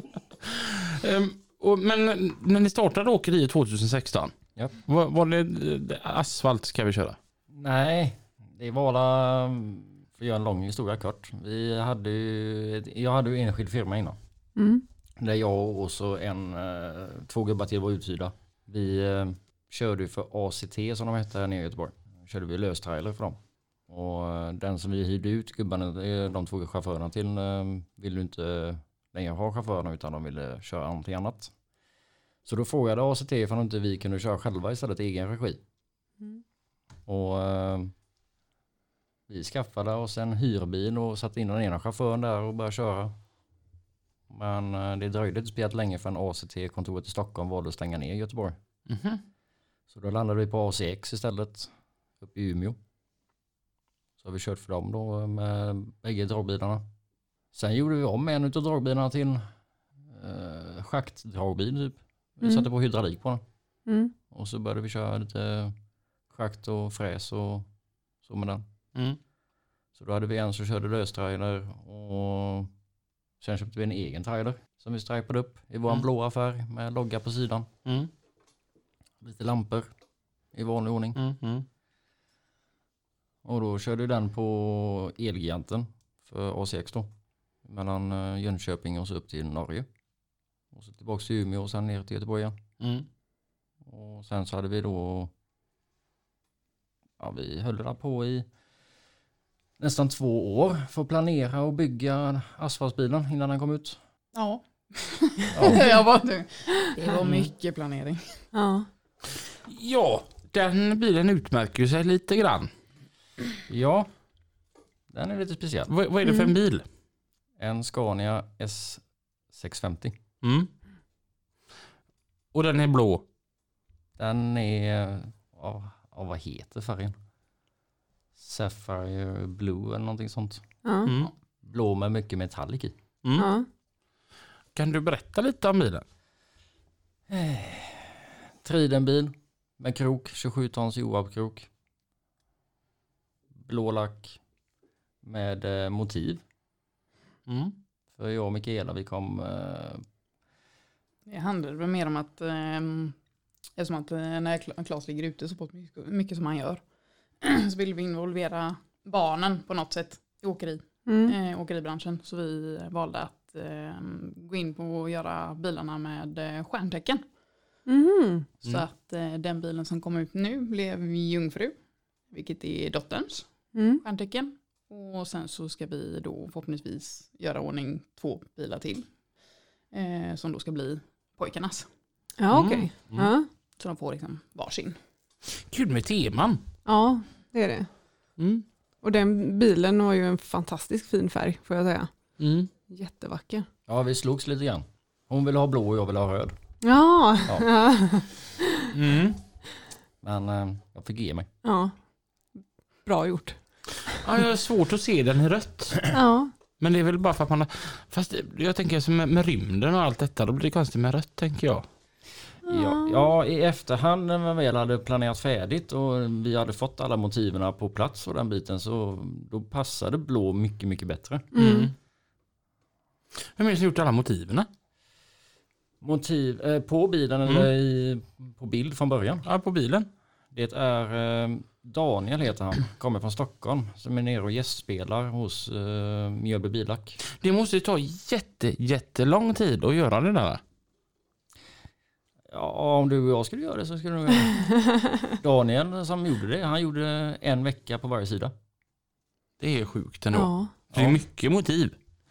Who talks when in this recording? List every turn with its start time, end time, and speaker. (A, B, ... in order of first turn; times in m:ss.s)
0:00.4-0:04.3 A
0:04.9-0:07.2 A
0:07.5-0:14.2 B
0:14.6-0:14.8 C
0:15.2-0:31.5 B
0:32.4-0:35.6 B
0:37.1-0:37.9 B
0:39.3-0:43.1 B
0:44.3-0:48.6 B
0:48.9-0:49.2 A
0:49.9-0:52.8 B
0:54.2-0:56.8 B
0:57.5-0:59.4 B
1:00.1-1:03.4 B
1:03.9-1:04.1 C
1:04.3-1:05.8 B
1:06.3-1:07.7 B
1:08.2-1:08.6 B
1:10.0-1:12.7 B
1:13.4-1:17.7 B
1:19.2-1:19.9 B
1:20.5-1:21.2 B
1:21.2-1:21.7 A
1:23.4-1:27.1 B
1:27.7-1:29.9 B
1:30.7-1:32.6 B
1:32.8-1:33.1 A
1:33.8-1:35.3 B
1:37.2-1:38.5 B
1:39.8-1:44.0 B
1:44.4-1:48.4 D
1:45.6-1:45.9 B
1:47.2-1:47.5 A
1:48.5-1:48.9 C
1:49.7-1:52.7 A
1:53.7-1:54.1 B
1:55.1-1:55.9 B
1:55.9-1:56.8 A
1:56.2-1:56.5 C
1:57.6-2:00.2 B
2:00.4-2:00.7 A
2:02.5-2:03.2 A
2:04.2-2:07.2 B
2:08.4-2:10.6 B
2:10.8-2:11.1 C
2:11.0-2:11.3 A
2:11.6-2:12.9 B
2:13.4-2:13.7 C
2:14.8-2:16.0 A
2:17.3-2:21.7 B
2:23.6-2:24.4 B
2:25.2-2:26.4 B
2:27.5-2:27.7 A
2:28.2-2:30.0 B
2:31.3-2:33.2 D
2:33.8-2:36.8 D
2:37.4-2:47.2 D
2:41.1-2:41.4 C
2:47.9-2:48.5 C
2:48.6-2:51.8 D
2:52.3-2:53.5 D
2:53.8-2:54.0 C
2:54.0-2:59.1 D
2:59.9-3:01.9 D
3:02.4-3:03.5 C
3:02.5-3:02.9 A
3:03.8-3:05.0 D
3:05.6-3:06.6 A
3:06.9-3:07.9 C
3:08.4-3:08.6 A
3:09.0-3:12.1 C
3:12.4-3:12.7 A
3:12.9-3:13.7 C
3:13.9-3:16.5 B
3:16.8-3:18.3 C
3:18.9-3:19.4 A
3:20.2-3:21.5 B
3:21.6-3:21.9 C
3:23.1-3:23.6 C
3:24.2-3:26.1 A
3:26.1-3:26.5 C
3:26.8-3:31.8 A
3:32.7-3:33.3 C
3:32.7-3:41.5 B
3:41.5-3:41.9 C
3:41.6-3:41.9 A
3:43.6-3:44.7 A
3:46.0-3:49.5 B
3:49.4-3:50.1 A
3:50.5-3:57.2 B
3:57.3-4:00.6 A
4:02.5-4:04.7 B
4:05.4-4:08.5 B
4:09.6-4:12.0 A
4:10.3-4:10.7 C
4:10.9-4:11.2 B